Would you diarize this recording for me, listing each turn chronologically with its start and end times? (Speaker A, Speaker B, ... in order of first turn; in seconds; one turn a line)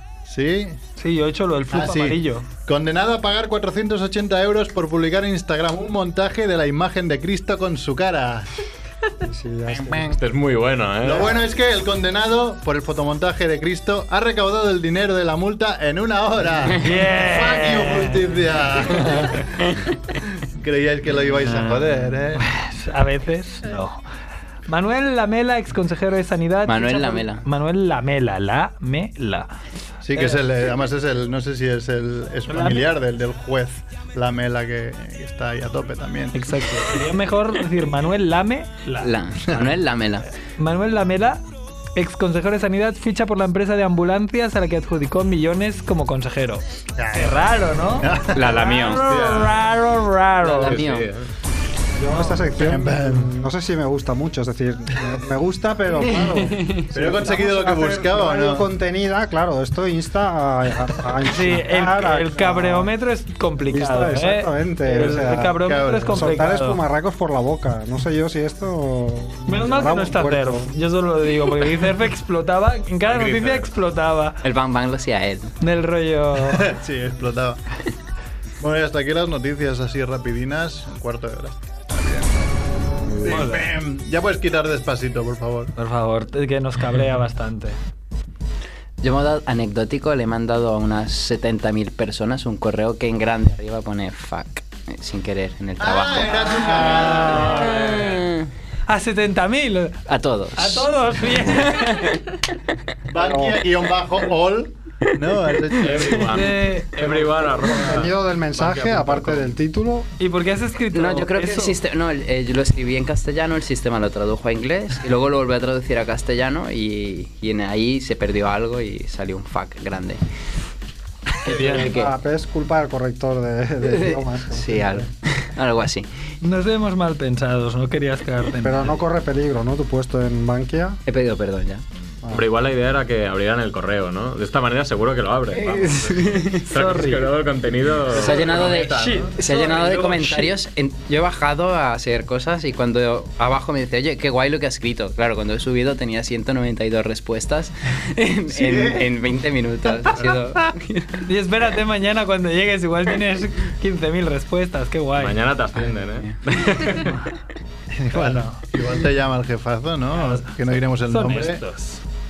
Speaker A: 0.2-0.8
Speaker B: 1.0-2.5
Speaker A: 1.7-8.5
Speaker C: 9.2-10.2
Speaker A: 9.7-10.1
Speaker D: 10.1-11.4
Speaker A: 11.0-19.5
Speaker B: 16.8-18.2
Speaker A: 20.6-22.4
Speaker B: 21.4-21.8
Speaker B: 22.3-24.0
Speaker B: 24.7-29.5
Speaker E: 26.6-27.4
Speaker A: 30.0-36.4
Speaker B: 30.1-30.4
Speaker B: 32.5-32.8
Speaker B: 36.3-39.1
Speaker E: 39.0-40.3
Speaker B: 40.6-41.4
Speaker B: 42.0-46.6
Speaker A: 47.0-49.5
Speaker B: 47.1-50.8
Speaker E: 48.3-49.0
Speaker D: 49.1-49.5
Speaker E: 50.4-51.1
Speaker D: 50.6-51.3
Speaker C: 52.0-62.9
Speaker A: 52.6-53.3
Speaker E: 56.1-56.9
Speaker A: 56.9-58.7
Speaker B: 61.3-66.8
Speaker C: 63.7-70.7
Speaker A: 65.0-66.3
Speaker B: 69.5-74.4
Speaker D: 73.1-73.6
Speaker E: 74.4-75.5
Speaker B: 75.6-76.7
Speaker A: 76.5-77.6
Speaker A: 78.6-82.5
Speaker A: 83.1-85.7
Speaker B: 83.2-83.7
Speaker B: 85.8-87.8
Speaker E: 89.0-98.5
Speaker A: 95.8-98.0
Speaker D: 96.8-98.2
Speaker B: 98.9-100.0
Speaker E: 100.1-100.9
Speaker B: 100.5-102.0
Speaker E: 101.7-102.2
Speaker A: 103.1-106.3
Speaker C: 103.2-103.6
Speaker D: 105.8-109.5
Speaker B: 106.3-107.5
Speaker C: 107.7-110.1
Speaker B: 110.2-111.8
Speaker E: 110.9-120.2
Speaker E: 121.4-122.1
Speaker B: 121.5-121.8
Speaker C: 121.6-125.1
Speaker E: 123.8-126.1
Speaker B: 126.4-129.0
Speaker C: 128.6-131.0
Speaker E: 131.1-131.8
Speaker D: 132.3-138.7
Speaker E: 135.5-136.7
Speaker B: 136.6-137.3
Speaker E: 138.1-151.2
Speaker A: 138.1-139.2
Speaker B: 138.2-140.5
Speaker A: 148.5-149.1
Speaker A: 150.1-150.4
Speaker B: 151.2-155.4
Speaker D: 155.2-157.2
Speaker E: 155.8-156.8
Speaker A: 157.9-161.6
Speaker B: 158.1-158.6
Speaker B: 160.1-160.5
Speaker B: 161.1-162.0